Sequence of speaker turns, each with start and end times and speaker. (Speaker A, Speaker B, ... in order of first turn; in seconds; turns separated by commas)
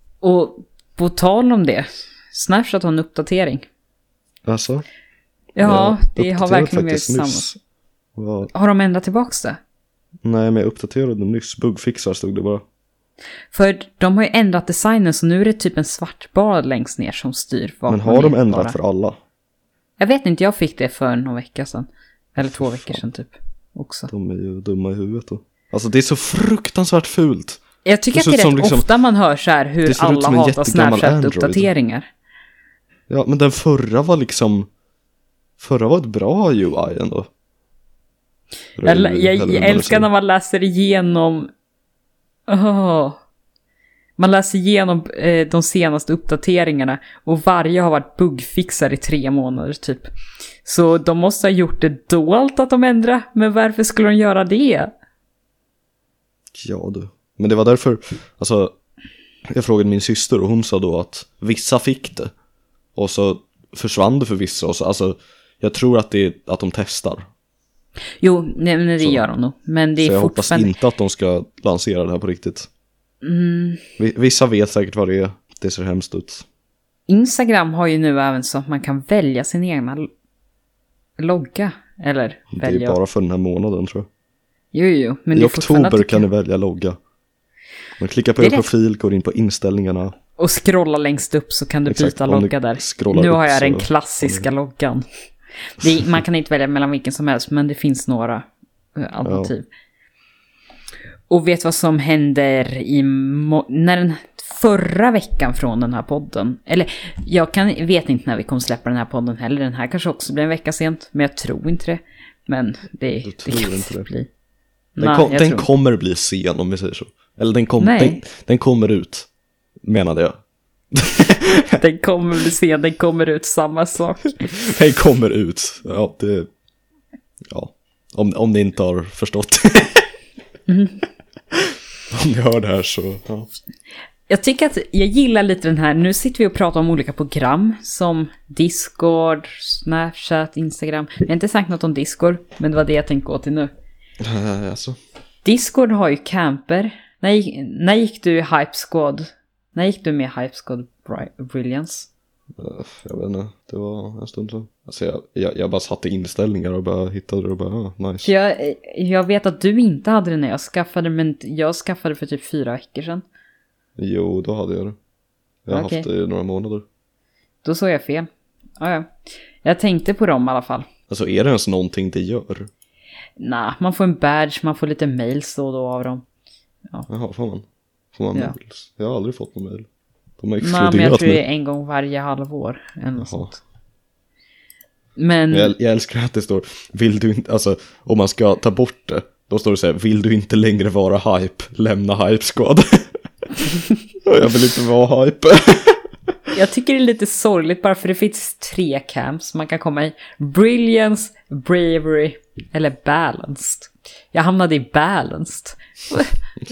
Speaker A: 0.2-3.6, Speaker B: 4.5-4.9, Speaker A: 5.6-7.5, Speaker B: 5.6-7.6, Speaker B: 8.1-8.5, Speaker A: 8.5-9.6, Speaker B: 10.2-12.6, Speaker A: 13.5-18.8, Speaker B: 17.9-19.2, Speaker A: 20.0-24.1, Speaker B: 22.4-23.0, Speaker B: 24.1-27.6, Speaker A: 27.9-32.1, Speaker B: 28.1-28.9, Speaker B: 29.8-31.7, Speaker B: 33.1-34.7, Speaker B: 35.6-37.3, Speaker B: 38.8-40.1, Speaker A: 38.8-41.5, Speaker A: 42.5-43.2, Speaker A: 44.2-50.1, Speaker A: 50.6-54.9, Speaker B: 56.5-58.7, Speaker B: 59.5-62.3, Speaker B: 63.0-67.3, Speaker A: 68.2-70.7, Speaker B: 70.0-72.7, Speaker A: 73.2-73.8, Speaker B: 74.0-76.5, Speaker A: 77.1-80.1, Speaker A: 81.2-83.0, Speaker B: 82.5-84.1, Speaker A: 84.7-86.2, Speaker B: 85.3-87.0, Speaker B: 88.0-90.1, Speaker A: 88.4-88.7, Speaker A: 90.4-95.0, Speaker B: 91.9-94.5, Speaker A: 95.8-99.7, Speaker B: 99.2-99.5, Speaker A: 101.3-114.3, Speaker B: 113.2-114.1, Speaker A: 115.0-115.7, Speaker B: 115.0-119.3, Speaker A: 117.8-118.2, Speaker B: 119.8-120.4, Speaker B: 120.9-121.8, Speaker A: 121.8-124.6, Speaker B: 124.6-126.5, Speaker B: 127.5-130.1, Speaker A: 130.7-131.0, Speaker B: 131.5-133.5, Speaker A: 134.3-143.7, Speaker B: 144.2-145.0, Speaker A: 145.4-152.1, Speaker B: 152.6-158.3, Speaker A: 158.2-163.2, Speaker B: 164.0-165.0, Speaker B: 165.6-166.8, Speaker A: 165.7-166.1, Speaker A: 167.6-168.3, Speaker A: 168.8-170.9, Speaker B: 171.1-172.7, Speaker A: 173.4-176.2, Speaker B: 177.1-181.4, Speaker A: 180.6-183.6, Speaker B: 183.2-183.5, Speaker A: 185.2-185.7, Speaker B: 185.5-193.2, Speaker B: 194.2-196.1, Speaker A: 196.5-206.4